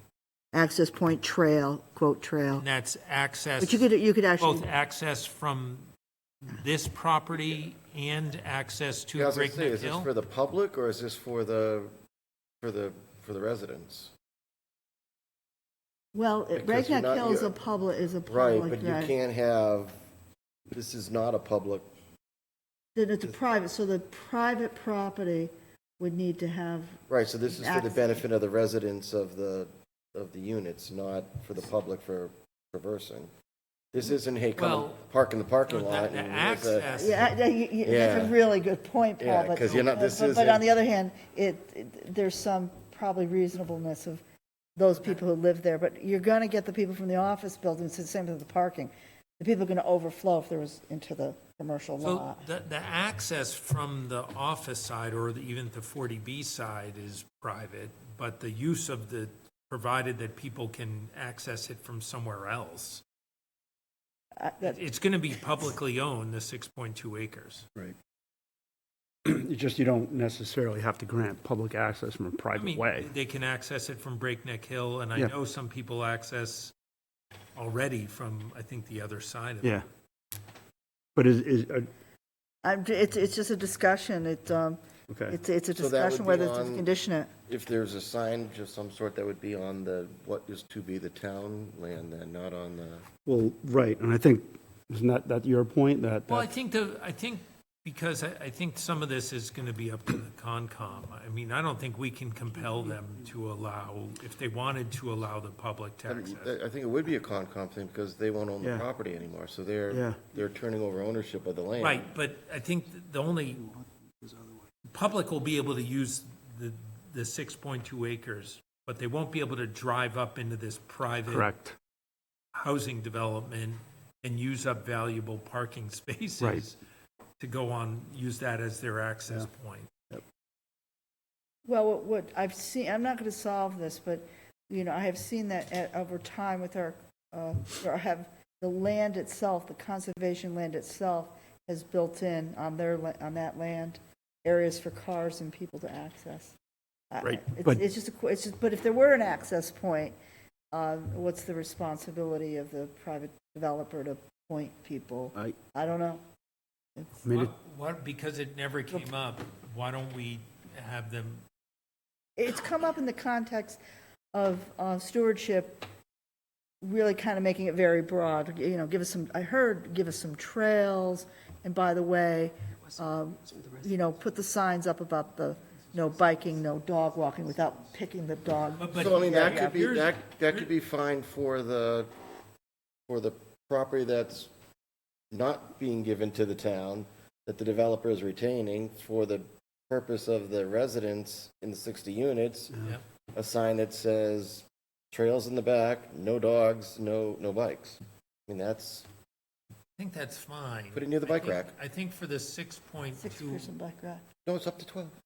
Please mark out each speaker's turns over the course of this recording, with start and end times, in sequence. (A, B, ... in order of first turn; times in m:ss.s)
0:00.5-0:02.6 A
0:02.6-0:03.9 B
0:03.6-0:04.7 A
0:04.4-0:05.9 B
0:06.5-0:10.1 B
0:09.2-0:11.9 C
0:12.6-0:14.1 C
0:16.1-0:19.1 A
0:16.6-0:17.6 C
0:18.3-0:20.0 C
0:20.7-0:21.9 C
0:23.0-0:28.2 A
0:27.1-0:33.3 C
0:33.9-0:36.9 C
0:34.6-0:35.0 B
0:35.7-0:37.3 B
0:36.9-0:44.2 A
0:37.8-0:38.4 C
0:39.2-0:40.7 C
0:44.8-0:52.4 A
0:52.0-1:03.0 B
1:04.4-1:04.8 A
1:04.6-1:07.7 B
1:09.2-1:13.1 D
1:12.6-1:16.7 B
1:17.6-1:19.8 B
1:21.2-1:21.9 D
1:22.6-1:27.3 A
1:25.1-1:25.4 D
1:25.7-1:26.9 C
1:27.5-1:33.0 C
1:33.3-1:36.5 D
1:36.3-1:46.6 B
1:46.1-1:52.0 C
1:48.6-1:48.9 D
1:49.9-1:50.3 D
1:51.8-1:53.7 B
1:54.9-2:01.5 B
2:01.3-2:01.8 D
2:02.5-2:06.8 B
2:06.4-2:06.6 D
2:07.4-2:09.9 B
2:11.7-2:26.6 A
2:27.1-2:30.2 A
2:27.2-2:27.8 D
2:30.7-2:36.2 A
2:37.0-2:37.2 A
2:37.2-2:37.5 D
2:37.3-2:41.4 B
2:42.4-2:43.8 A
2:44.3-2:45.9 A
2:46.8-2:59.8 A
2:58.8-3:00.7 B
2:58.9-3:02.1 C
3:03.1-3:04.5 C
3:05.3-3:12.8 C
3:13.3-3:19.1 C
3:20.0-3:23.7 B
3:20.9-3:21.7 C
3:23.2-3:24.2 A
3:24.5-3:25.1 C